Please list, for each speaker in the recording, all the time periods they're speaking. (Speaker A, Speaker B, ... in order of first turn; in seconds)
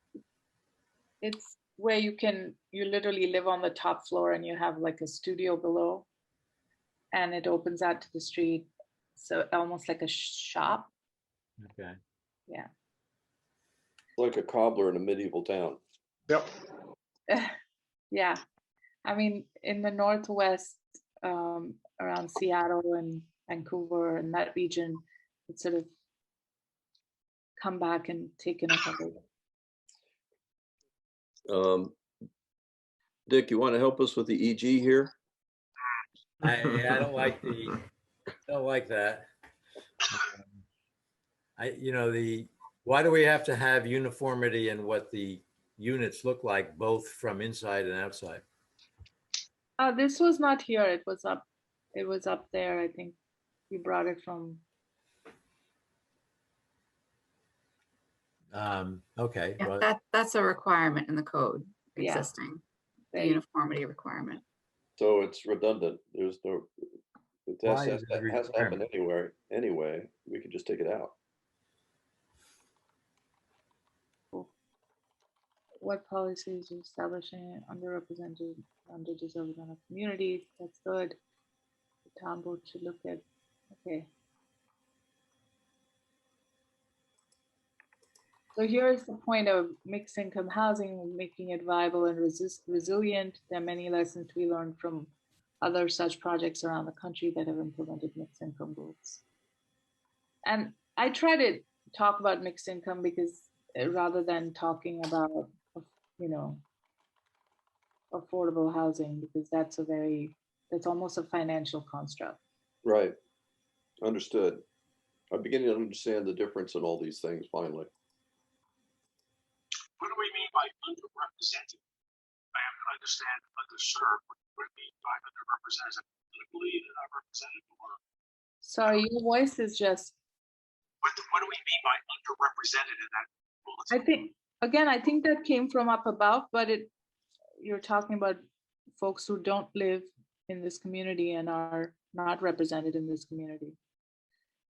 Speaker A: 1.2-6.0, 7.1-10.9, 17.3-17.5, 18.1-18.4, 19.0-25.9, 27.6-29.2, 49.8-53.2, 53.7-54.6, 62.0-62.3, 63.1-63.4, 75.8-81.2, 82.1-83.2, 83.7-84.1, 88.5-99.2, 100.4-106.6, 108.1-112.4, 128.6-130.2, 133.9-136.9, 137.6-138.4, 139.0-143.8
Speaker B: 11.6-12.0, 36.4-37.8, 38.5-39.2, 40.1-40.6, 41.6-48.4, 58.5-59.9, 67.7-68.8
Speaker C: 14.2-15.8, 31.5-31.9, 33.3-35.1, 36.8-37.1, 65.0-66.8, 67.5-71.1, 112.8-113.1, 114.0-114.6, 115.3-117.9
Speaker D: 59.6-62.6, 63.2-64.4
Speaker E: 120.0-121.8, 122.5-128.0, 131.0-134.0